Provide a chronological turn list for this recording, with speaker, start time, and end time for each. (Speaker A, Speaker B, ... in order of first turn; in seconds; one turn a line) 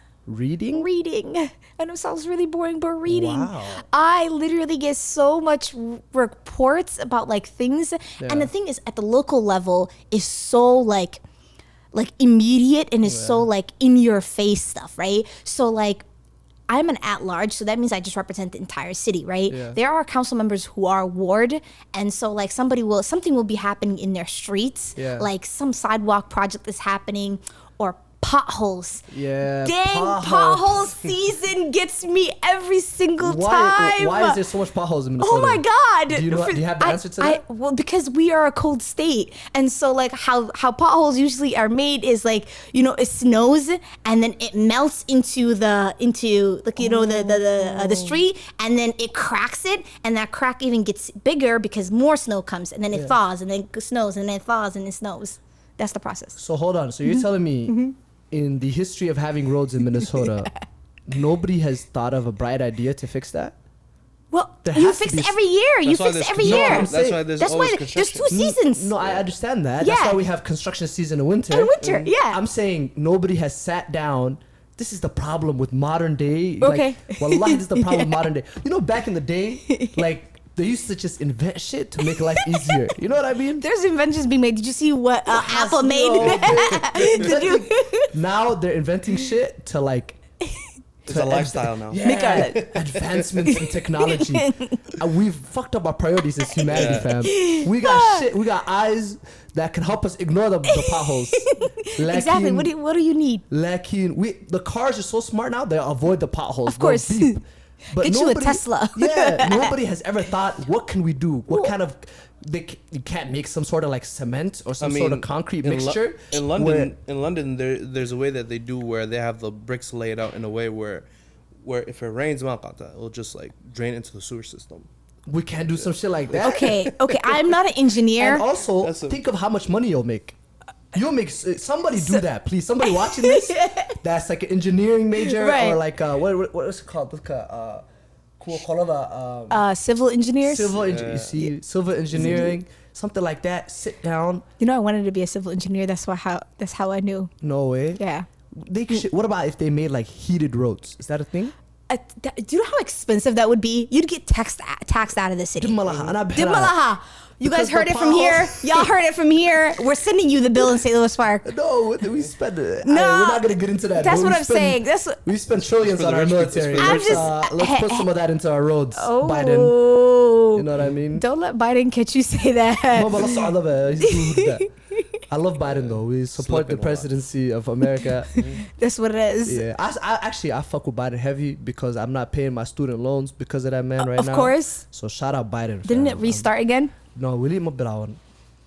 Speaker A: 0.3-0.9
Speaker B: 0.7-11.2
Speaker A: 3.1-3.9
Speaker A: 8.2-8.5
Speaker B: 11.9-16.0
Speaker A: 13.0-13.5
Speaker B: 16.7-34.4
Speaker A: 19.5-19.8
Speaker A: 25.0-25.3
Speaker A: 29.1-31.1
Speaker A: 33.2-37.4
Speaker B: 35.2-56.4
Speaker A: 46.8-48.2
Speaker A: 52.9-53.2
Speaker A: 56.4-60.5
Speaker B: 57.0-58.0
Speaker B: 59.8-60.6
Speaker A: 61.1-63.5
Speaker B: 64.3-68.9
Speaker A: 64.6-65.4
Speaker C: 65.8-68.3
Speaker A: 66.4-67.3
Speaker A: 68.3-83.6
Speaker C: 69.0-69.2
Speaker B: 69.8-70.2
Speaker B: 71.5-72.4
Speaker B: 76.6-78.2
Speaker B: 79.7-80.1
Speaker B: 82.0-82.8
Speaker B: 83.6-88.1
Speaker A: 85.3-90.2
Speaker C: 86.1-87.4
Speaker C: 91.0-93.3
Speaker A: 91.1-102.7
Speaker B: 92.0-92.8
Speaker B: 93.4-94.8
Speaker B: 96.6-98.3
Speaker C: 96.7-97.1
Speaker B: 100.7-103.4
Speaker A: 103.5-116.9
Speaker B: 106.7-107.4
Speaker B: 108.0-109.7
Speaker B: 111.5-111.7
Speaker C: 114.8-121.1
Speaker C: 121.6-124.9
Speaker A: 125.3-126.8
Speaker C: 126.3-127.4
Speaker B: 126.3-128.4
Speaker A: 128.2-130.3
Speaker C: 128.8-129.2
Speaker A: 130.9-137.8
Speaker B: 131.9-132.2
Speaker B: 132.8-134.0
Speaker B: 135.2-135.8
Speaker A: 138.4-139.6
Speaker B: 139.5-140.8
Speaker A: 140.4-144.4
Speaker C: 140.8-141.4
Speaker C: 142.2-142.5
Speaker B: 142.2-142.4
Speaker B: 144.6-147.3
Speaker A: 147.4-148.0
Speaker B: 148.0-148.3
Speaker A: 148.6-151.5
Speaker B: 151.9-155.8
Speaker A: 155.6-156.8
Speaker C: 155.8-156.2
Speaker B: 156.3-161.5
Speaker A: 157.4-158.9
Speaker A: 161.4-169.8
Speaker B: 162.8-165.2
Speaker C: 165.8-167.3
Speaker B: 166.8-168.1
Speaker B: 168.9-174.7
Speaker A: 170.5-171.2
Speaker A: 172.9-174.7
Speaker A: 175.3-178.4
Speaker C: 175.6-177.1
Speaker B: 178.3-179.6
Speaker C: 178.3-178.6
Speaker A: 179.4-186.5
Speaker B: 184.0-184.8
Speaker B: 185.8-186.9
Speaker A: 187.1-188.2